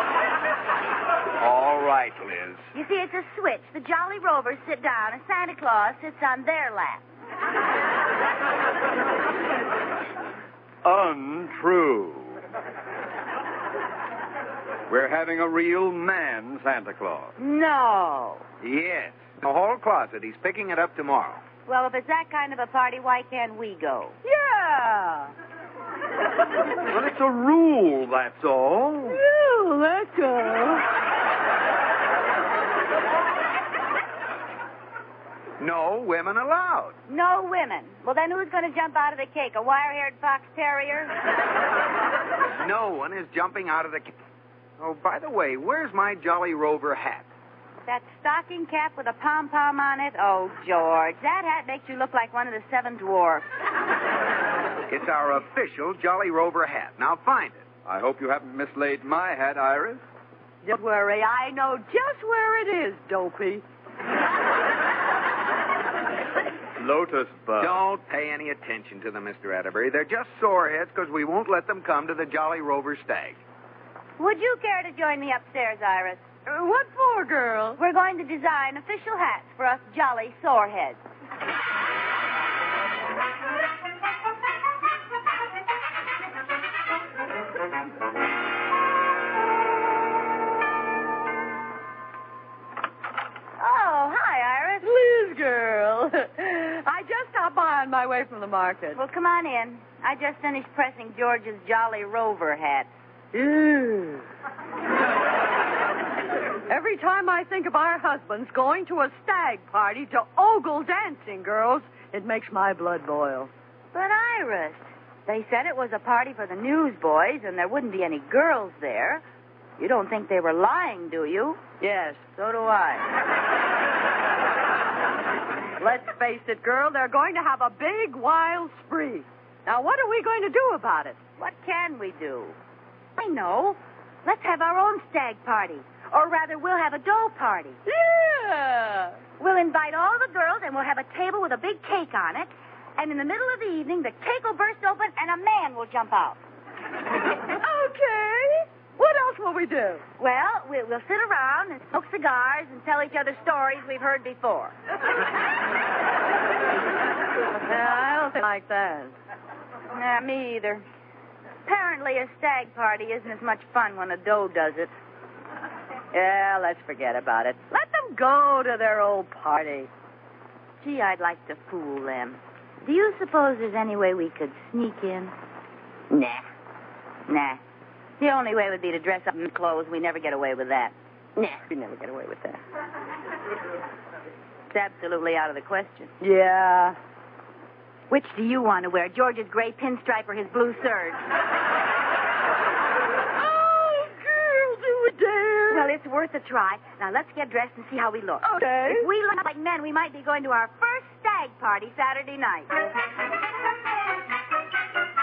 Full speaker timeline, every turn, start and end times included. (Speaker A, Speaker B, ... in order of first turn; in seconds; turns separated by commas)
Speaker A: 1.4-2.6, Speaker B: 2.7-7.0, Speaker C: 10.8-12.4, Speaker C: 14.9-17.3, Speaker B: 17.4-18.4, Speaker A: 18.6-21.4, Speaker B: 21.6-24.1, Speaker D: 24.2-25.3, Speaker C: 26.9-29.2, Speaker D: 29.1-30.9, Speaker A: 35.6-37.0, Speaker B: 37.1-41.1, Speaker A: 42.6-44.1, Speaker A: 44.8-47.2, Speaker B: 47.9-53.5, Speaker A: 54.9-57.6, Speaker C: 57.8-60.0, Speaker D: 60.6-63.6, Speaker C: 66.8-67.8, Speaker A: 67.6-73.4, Speaker B: 74.2-76.2, Speaker D: 76.5-77.8, Speaker B: 77.8-81.0, Speaker B: 93.6-94.9, Speaker D: 94.8-99.0, Speaker B: 98.9-102.9, Speaker D: 103.3-104.2, Speaker D: 106.7-113.5, Speaker B: 113.9-119.2, Speaker B: 119.8-121.6, Speaker D: 121.8-122.2, Speaker B: 122.3-123.0, Speaker D: 125.8-131.2, Speaker B: 131.4-132.6, Speaker B: 133.2-137.8, Speaker D: 137.8-139.2, Speaker B: 139.4-146.4, Speaker D: 147.5-150.0, Speaker B: 150.2-154.7, Speaker D: 157.6-159.1, Speaker B: 159.9-160.8, Speaker B: 161.7-164.9, Speaker B: 166.1-167.6, Speaker D: 167.7-169.9, Speaker B: 170.8-175.3, Speaker D: 176.1-176.4, Speaker B: 177.3-177.6, Speaker B: 178.2-180.9, Speaker D: 181.4-182.6, Speaker B: 184.7-186.1, Speaker D: 186.2-187.0, Speaker B: 188.1-191.2, Speaker D: 193.4-195.9, Speaker B: 195.7-202.7, Speaker D: 198.4-199.1